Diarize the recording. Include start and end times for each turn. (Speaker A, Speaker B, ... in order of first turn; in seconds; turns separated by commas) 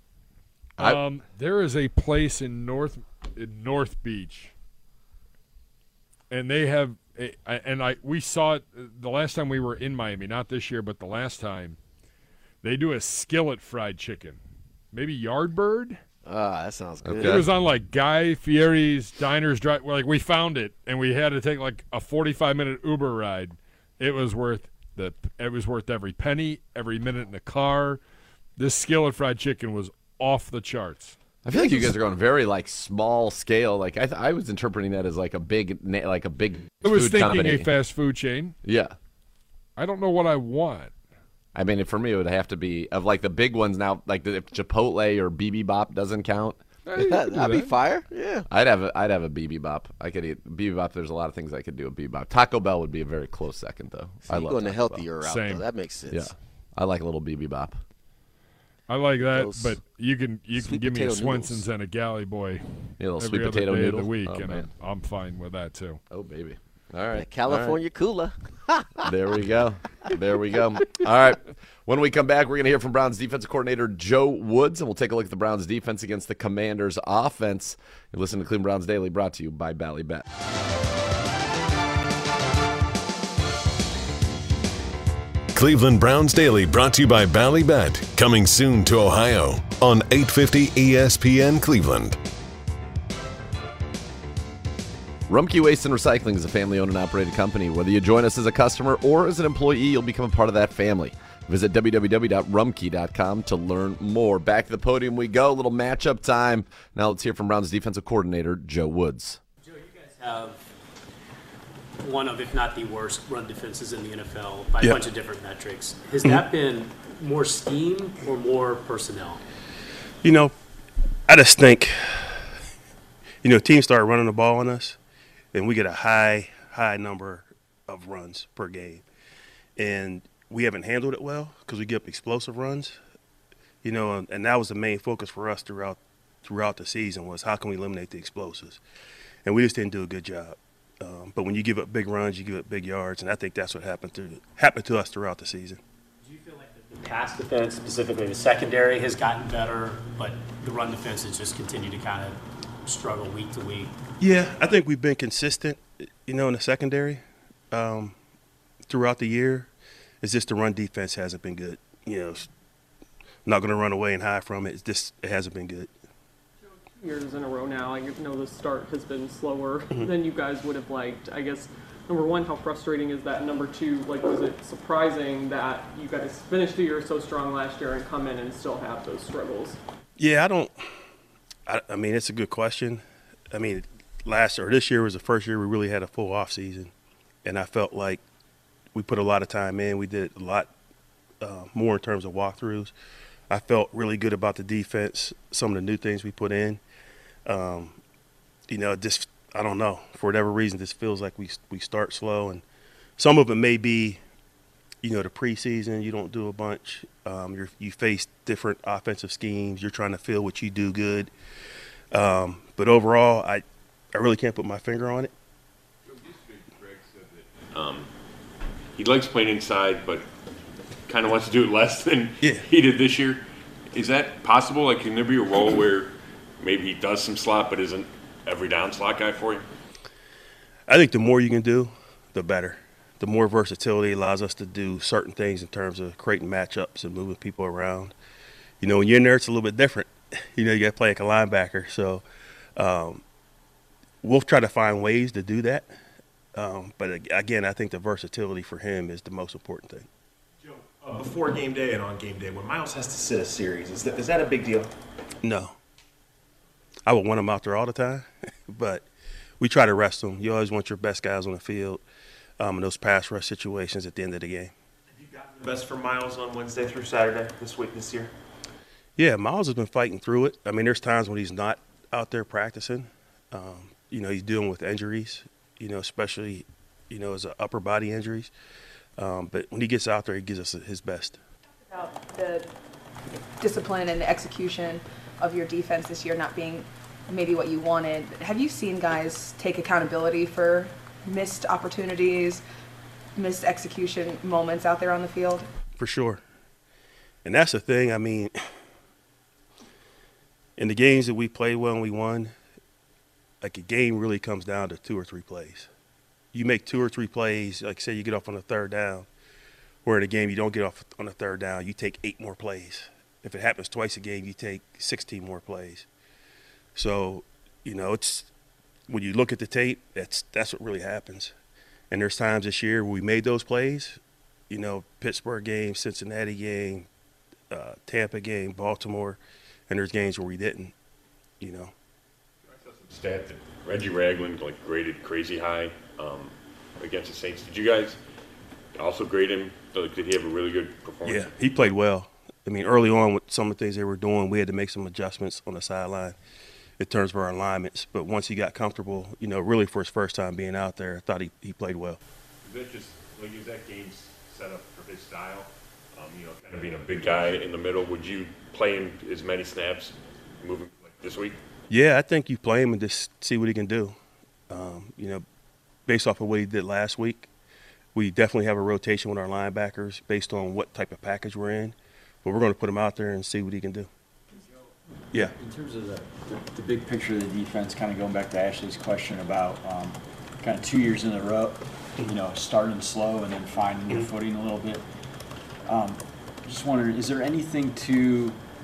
Speaker A: 0.8-4.5, Speaker A: 6.3-11.8, Speaker A: 12.6-14.4, Speaker A: 14.9-16.0, Speaker B: 16.2-17.4, Speaker C: 17.0-17.5, Speaker A: 17.2-28.0, Speaker A: 28.6-31.9, Speaker C: 31.4-37.7, Speaker A: 36.8-38.5, Speaker C: 38.6-38.9, Speaker A: 39.8-40.9, Speaker C: 41.5-46.6, Speaker A: 46.9-47.7, Speaker B: 47.0-48.5, Speaker C: 48.5-55.0, Speaker B: 54.2-56.3, Speaker A: 55.2-55.6, Speaker C: 56.1-57.8, Speaker A: 58.9-62.6, Speaker B: 59.3-59.8, Speaker B: 60.5-61.6, Speaker C: 63.0-64.7, Speaker A: 63.2-66.0, Speaker C: 66.1-67.8, Speaker B: 67.1-69.1, Speaker C: 69.0-80.2, Speaker D: 85.5-92.2, Speaker C: 95.3-109.4, Speaker E: 109.7-110.6, Speaker E: 112.0-119.4, Speaker F: 120.2-120.5, Speaker F: 121.3-122.4, Speaker F: 123.4-125.0, Speaker F: 125.5-129.0, Speaker F: 129.8-133.0, Speaker F: 133.8-138.8, Speaker F: 139.4-145.8, Speaker E: 146.2-153.9, Speaker F: 154.2-158.2, Speaker F: 158.9-162.5, Speaker F: 163.4-165.9, Speaker G: 167.0-179.8, Speaker F: 180.2-180.9, Speaker F: 181.7-186.9, Speaker F: 187.4-188.2, Speaker F: 188.9-190.7, Speaker F: 191.4-192.9, Speaker F: 193.5-196.8, Speaker F: 197.4-198.0, Speaker F: 198.7-202.6, Speaker F: 203.2-204.2, Speaker F: 205.0-211.3, Speaker F: 212.1-215.3, Speaker H: 216.7-217.2, Speaker H: 217.7-218.1, Speaker H: 218.9-220.3, Speaker H: 221.1-229.7, Speaker F: 230.9-238.1, Speaker F: 238.8-242.2, Speaker F: 242.8-243.2, Speaker F: 244.2-245.9, Speaker F: 246.5-250.1, Speaker I: 251.0-254.9, Speaker F: 255.4-255.8, Speaker F: 257.1-259.1, Speaker F: 259.6-262.0, Speaker F: 262.6-264.7, Speaker I: 265.3-268.3, Speaker F: 269.2-278.5, Speaker F: 279.2-281.4, Speaker J: 281.9-282.7, Speaker J: 283.6-292.6, Speaker J: 293.4-295.7, Speaker F: 296.0-296.4, Speaker F: 297.4-298.5, Speaker F: 300.8-302.6, Speaker F: 303.6-305.9, Speaker F: 306.5-309.3, Speaker F: 310.0-316.1, Speaker F: 316.9-318.5, Speaker F: 319.1-321.5, Speaker F: 322.1-327.1, Speaker F: 327.7-330.9, Speaker F: 331.6-331.9, Speaker H: 332.7-338.2, Speaker H: 338.9-341.9, Speaker F: 341.2-346.4, Speaker F: 347.0-352.2, Speaker H: 352.6-361.6, Speaker F: 361.9-364.2, Speaker F: 364.7-365.4, Speaker F: 366.1-367.5, Speaker F: 368.1-374.1, Speaker K: 375.4-385.0, Speaker K: 385.9-388.6